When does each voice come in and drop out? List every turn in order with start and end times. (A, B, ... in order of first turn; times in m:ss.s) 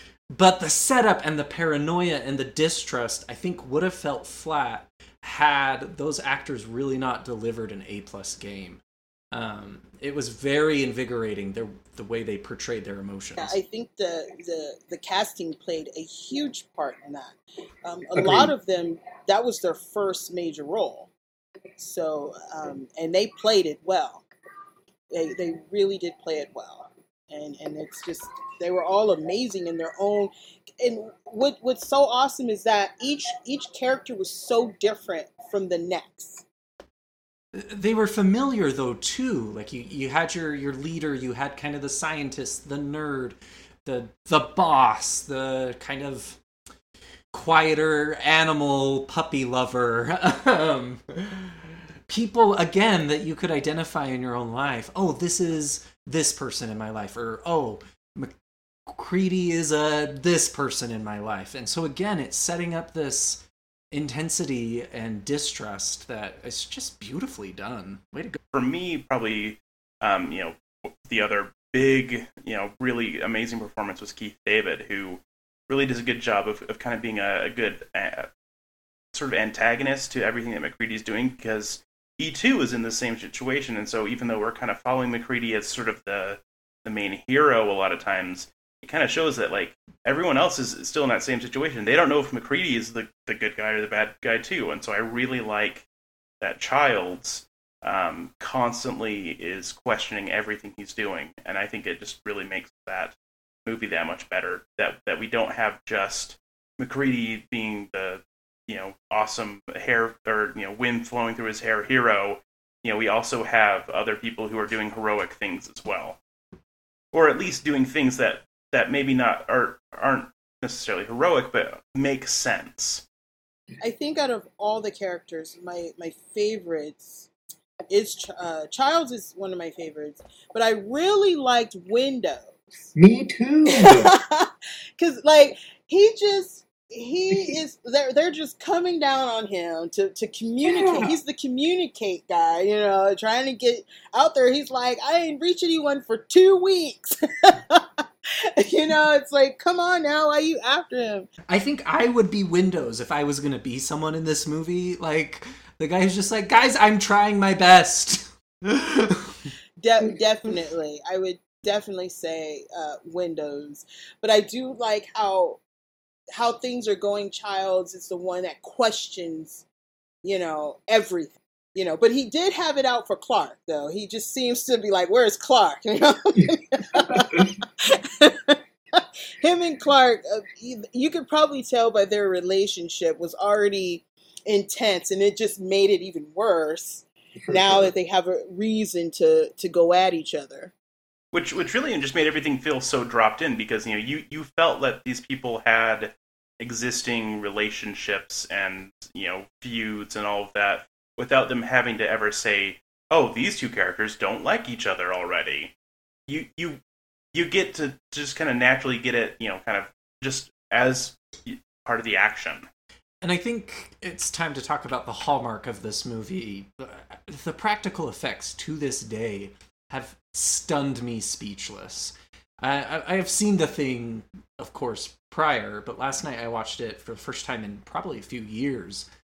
0:00.3-0:13.6 A
0:13.4-0:21.1 B
0:18.1-0:18.5 C
0:21.8-0:24.2 B
0:25.1-0:36.4 B
0:37.5-0:46.4 A
0:47.3-0:58.3 A
0:58.9-1:08.4 A
1:08.5-1:18.3 D
1:19.1-1:35.8 D
1:36.4-1:56.2 D
1:57.1-2:03.0 D
2:03.8-2:07.3 B
2:07.9-2:12.9 B
2:12.9-2:14.1 C
2:13.7-2:28.0 B
2:20.7-2:21.1 C
2:28.6-2:31.3 B
2:31.5-2:39.4 A
2:39.8-2:45.6 B
2:46.4-2:49.6 B
2:50.2-3:10.7 B
2:56.9-2:57.4 C
3:07.4-3:07.9 C
3:11.3-3:25.7 D
3:26.3-3:26.8 D
3:27.3-3:32.7 D
3:33.2-3:49.1 A